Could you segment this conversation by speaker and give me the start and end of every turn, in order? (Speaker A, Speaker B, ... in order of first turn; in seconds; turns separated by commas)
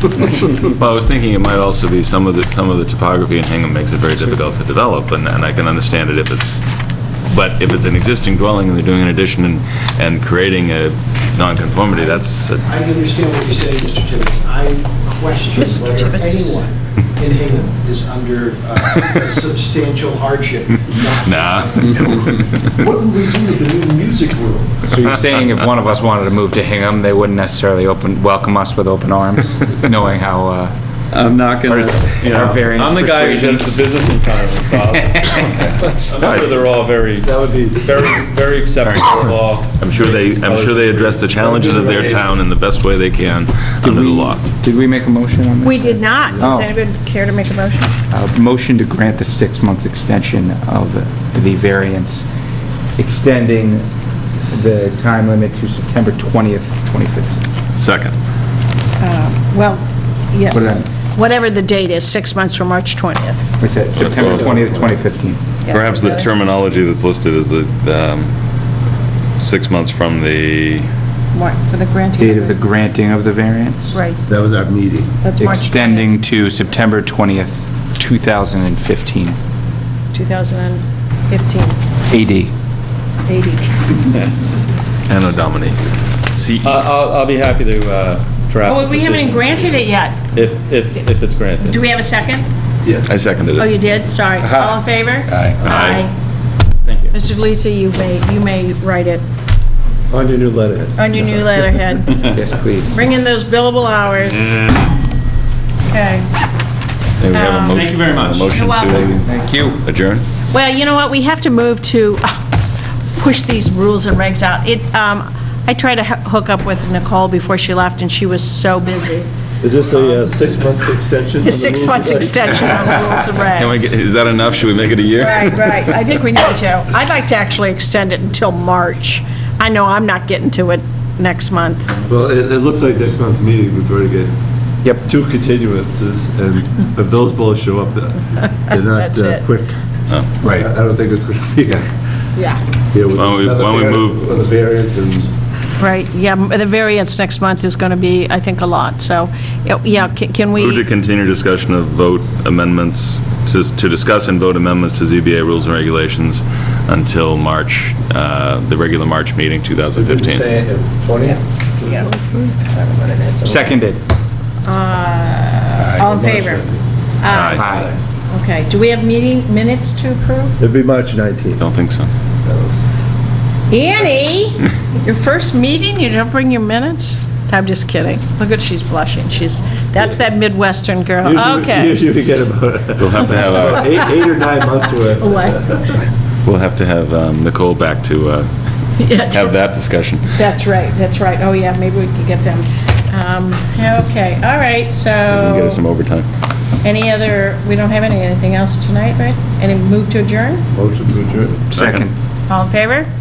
Speaker A: 0.6-6.6, Speaker A: 7.3-12.7, Speaker B: 11.9-24.9, Speaker C: 15.6-16.6, Speaker A: 21.2-21.9, Speaker D: 24.9-30.7, Speaker E: 31.1-41.5, Speaker D: 31.6-33.8, Speaker D: 35.1-35.4, Speaker F: 36.0-36.4, Speaker A: 36.2-36.5, Speaker F: 37.2-38.0, Speaker A: 38.8-39.1, Speaker A: 39.8-44.4, Speaker F: 41.4-42.4, Speaker D: 43.8-46.7, Speaker C: 45.6-47.9, Speaker D: 48.1-52.2, Speaker D: 53.0-53.9, Speaker D: 54.4-57.4, Speaker A: 57.8-58.1, Speaker C: 59.0-63.5, Speaker D: 60.5-60.9, Speaker D: 63.6-65.4, Speaker A: 63.9-64.6, Speaker F: 64.1-64.7, Speaker C: 65.6-66.3, Speaker A: 65.7-68.3, Speaker A: 69.4-70.9, Speaker C: 71.3-72.6, Speaker D: 72.2-74.0, Speaker C: 73.9-74.2, Speaker F: 74.3-75.2, Speaker C: 75.2-76.2, Speaker D: 75.4-79.4, Speaker C: 80.1-81.8, Speaker D: 82.1-82.5, Speaker C: 83.3-84.0, Speaker A: 85.1-85.8, Speaker A: 86.3-86.7, Speaker E: 86.6-91.8, Speaker C: 88.6-90.2, Speaker C: 91.6-92.5, Speaker A: 93.0-93.8, Speaker C: 93.6-96.1, Speaker D: 94.4-94.8, Speaker A: 95.6-96.0, Speaker D: 96.9-97.1, Speaker C: 97.1-99.2, Speaker F: 100.1-101.7, Speaker C: 101.0-102.3, Speaker D: 102.2-103.0, Speaker C: 102.8-104.5, Speaker E: 104.2-104.8, Speaker C: 105.9-106.2, Speaker A: 107.2-110.2, Speaker C: 107.3-107.9, Speaker E: 107.7-109.2, Speaker C: 108.5-109.1, Speaker D: 109.2-109.8, Speaker C: 110.5-112.5, Speaker C: 113.2-119.3, Speaker F: 119.6-123.1, Speaker C: 121.4-123.9, Speaker A: 123.6-125.5, Speaker C: 125.2-132.0, Speaker F: 132.1-134.3, Speaker F: 135.0-139.7, Speaker C: 138.4-139.4, Speaker F: 140.4-141.9, Speaker C: 142.4-142.6, Speaker F: 142.9-145.3, Speaker A: 143.1-144.3, Speaker C: 145.8-150.9, Speaker A: 150.5-160.5, Speaker F: 159.9-162.5, Speaker C: 161.2-163.8, Speaker D: 163.4-164.0, Speaker C: 164.6-166.6, Speaker F: 165.8-166.8, Speaker C: 167.2-167.6, Speaker A: 167.3-167.7, Speaker D: 167.5-167.9, Speaker F: 167.5-167.9, Speaker C: 168.3-170.6, Speaker F: 170.6-171.6, Speaker A: 171.6-172.1, Speaker F: 172.4-172.8, Speaker C: 173.7-182.0, Speaker F: 181.2-185.9, Speaker A: 183.0-184.1, Speaker C: 185.2-186.0, Speaker A: 186.4-188.5, Speaker C: 189.0-189.6, Speaker A: 189.2-190.4, Speaker C: 190.3-195.8, Speaker A: 195.3-196.3, Speaker C: 196.8-200.6, Speaker F: 200.7-201.7, Speaker A: 201.7-202.1, Speaker D: 201.7-202.1, Speaker C: 202.5-203.1